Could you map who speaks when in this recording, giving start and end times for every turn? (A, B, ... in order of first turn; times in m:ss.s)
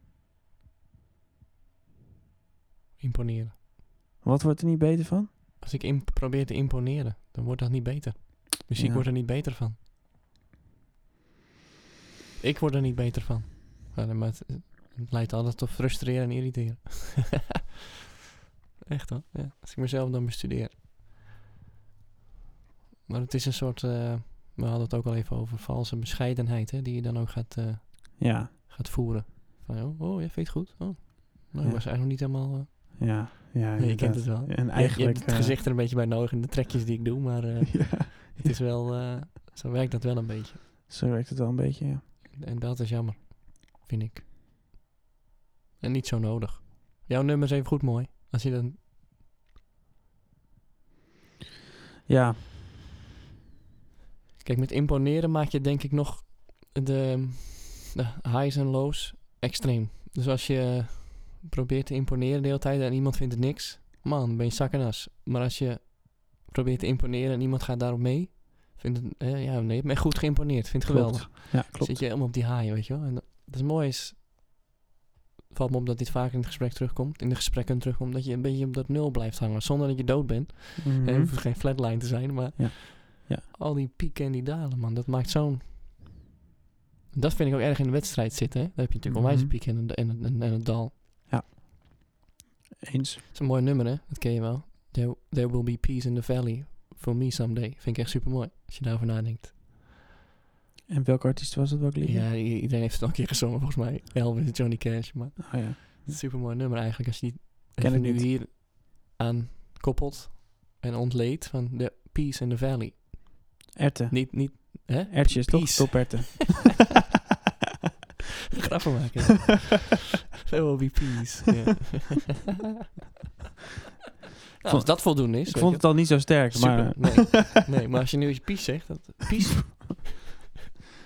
0:03.0-0:03.6 A
0:04.2-0:05.3 B
0:05.6-0:09.8 A
0:08.8-0:09.1 B
0:12.4-0:17.5 A
0:18.9-0:20.8 A
0:23.1-0:40.6 A
0:28.2-0:28.5 B
0:31.6-0:31.9 B
0:33.0-0:35.6 B
0:37.7-0:38.6 B
0:40.9-0:42.0 B
0:42.3-0:44.2 A
0:45.8-0:48.8 A
0:52.1-0:52.4 B
0:54.4-1:14.2 A
1:10.8-1:12.0 B
1:15.5-1:25.7 A
1:20.8-1:22.0 B
1:22.6-1:23.5 B
1:27.1-1:31.0 A
1:29.1-1:29.5 B
1:31.3-1:32.1 B
1:32.8-1:33.2 B
1:33.3-1:39.6 A
1:40.9-1:42.3 B
1:42.0-1:56.4 A
1:45.4-1:46.2 B
1:47.8-1:48.3 B
1:53.8-1:56.8 B
1:58.6-1:59.9 A
2:00.5-2:02.4 A
2:04.6-2:10.2 A
2:04.7-2:07.6 B